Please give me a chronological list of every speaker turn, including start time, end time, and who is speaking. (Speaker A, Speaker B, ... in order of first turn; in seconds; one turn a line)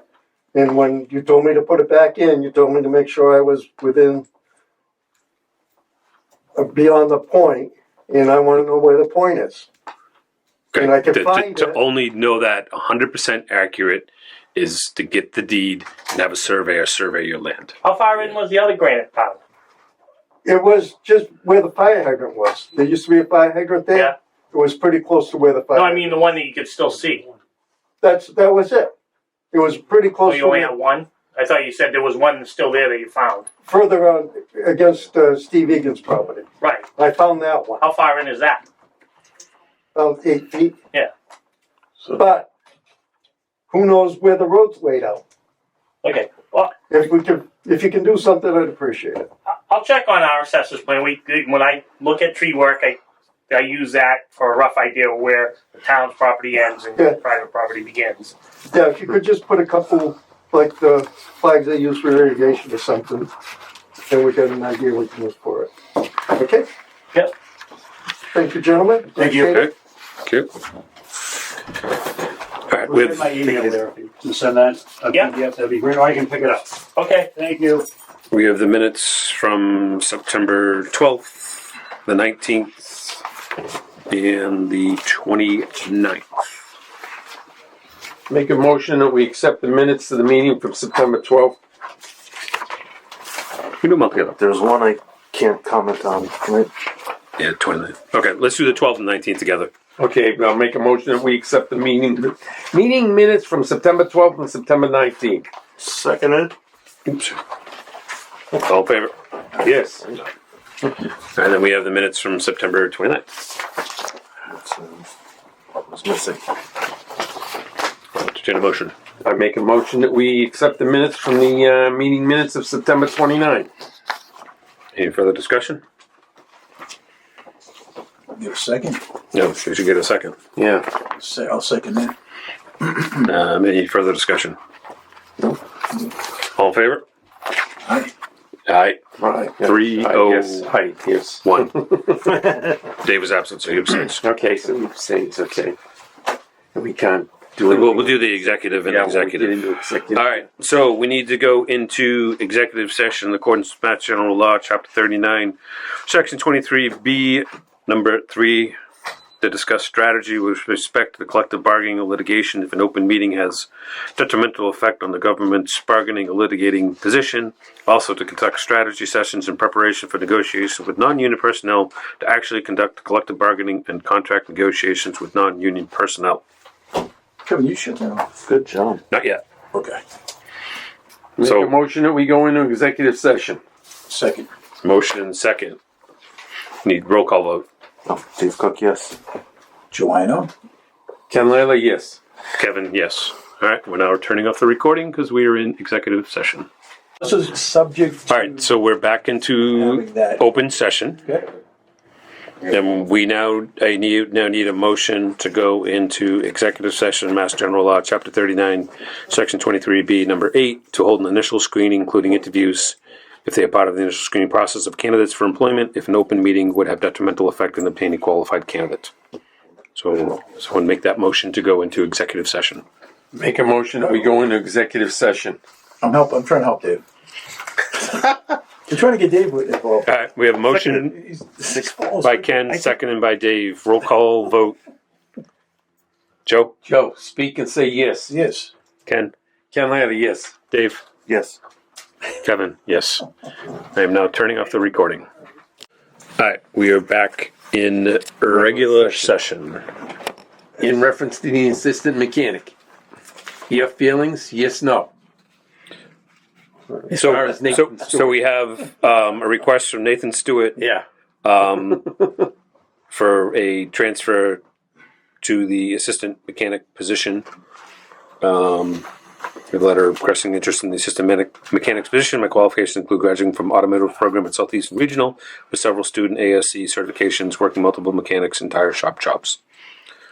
Speaker A: 0.5-4.3
Speaker A: 6.5-9.7
Speaker B: 10.7-17.8
Speaker A: 10.7-11.8
Speaker C: 17.8-19.4
Speaker A: 20.4-26.2
Speaker C: 25.8-27.3
Speaker A: 28.0-28.9
Speaker A: 29.5-30.7
Speaker C: 30.2-33.5
Speaker A: 33.7-36.5
Speaker C: 36.6-36.9
Speaker A: 37.0-37.8
Speaker C: 37.8-38.6
Speaker A: 40.0-40.8
Speaker A: 42.1-42.5
Speaker A: 43.7-45.2
Speaker C: 46.0-46.7
Speaker A: 46.9-49.3
Speaker C: 49.7-53.0
Speaker C: 53.5-58.3
Speaker A: 58.7-63.3
Speaker A: 64.1-65.7
Speaker A: 66.2-66.7
Speaker A: 68.3-69.7
Speaker C: 69.2-69.6
Speaker B: 70.2-70.5
Speaker B: 72.7-73.4
Speaker D: 72.9-76.8
Speaker C: 77.0-77.3
Speaker D: 77.3-77.9
Speaker B: 78.3-82.8
Speaker B: 84.1-86.5
Speaker E: 88.3-91.6
Speaker B: 93.8-94.4
Speaker F: 94.4-96.7
Speaker B: 97.4-99.7
Speaker E: 100.0-105.5
Speaker F: 105.8-106.5
Speaker B: 107.1-107.4
Speaker B: 108.5-109.1
Speaker E: 109.6-110.2
Speaker B: 111.3-113.3
Speaker F: 114.5-115.1
Speaker F: 115.9-116.4
Speaker B: 118.2-118.9
Speaker E: 119.2-123.7
Speaker B: 125.0-125.8
Speaker G: 128.3-129.0
Speaker B: 129.3-130.4
Speaker E: 130.6-130.9
Speaker G: 131.2-132.2
Speaker B: 133.1-134.6
Speaker B: 136.5-137.0
Speaker G: 137.8-138.1
Speaker B: 138.7-139.0
Speaker E: 139.2-142.5
Speaker B: 139.6-140.7
Speaker B: 141.4-141.8
Speaker B: 142.3-144.2
Speaker E: 144.2-145.8
Speaker E: 146.8-150.5
Speaker B: 147.7-149.6
Speaker B: 150.1-158.8
Speaker B: 159.4-176.4
Speaker G: 177.5-178.3
Speaker F: 178.5-179.0
Speaker B: 179.1-179.4
Speaker G: 179.7-180.0
Speaker E: 181.4-183.6
Speaker B: 181.4-181.7
Speaker G: 184.1-184.5
Speaker B: 184.8-185.8
Speaker B: 186.8-187.7
Speaker F: 188.1-189.2
Speaker G: 189.9-190.5
Speaker E: 191.3-192.2
Speaker B: 192.6-196.7
Speaker G: 197.2-198.6
Speaker B: 198.3-201.2
Speaker G: 199.7-200.4
Speaker B: 202.7-219.1
Speaker B: 220.0-222.8
Speaker E: 223.3-225.6
Speaker G: 226.0-227.0
Speaker G: 227.9-230.1
Speaker B: 230.1-231.2
Speaker G: 230.7-232.6
Speaker B: 232.2-234.8
Speaker B: 236.5-236.7
Speaker E: 236.8-238.3
Speaker G: 238.3-238.7
Speaker B: 239.1-239.3
Speaker E: 239.7-240.6
Speaker B: 240.7-241.0
Speaker F: 241.3-241.6
Speaker B: 242.4-243.3
Speaker B: 243.9-245.2
Speaker B: 246.4-249.9
Speaker E: 248.5-249.3
Speaker E: 250.8-252.7
Speaker E: 253.7-255.1
Speaker E: 256.9-258.4
Speaker B: 257.1-260.8
Speaker E: 260.8-261.0
Speaker B: 261.4-262.1
Speaker E: 261.8-262.5
Speaker B: 263.1-264.6
Speaker B: 265.4-267.4
Speaker B: 268.4-269.1
Speaker B: 269.7-279.6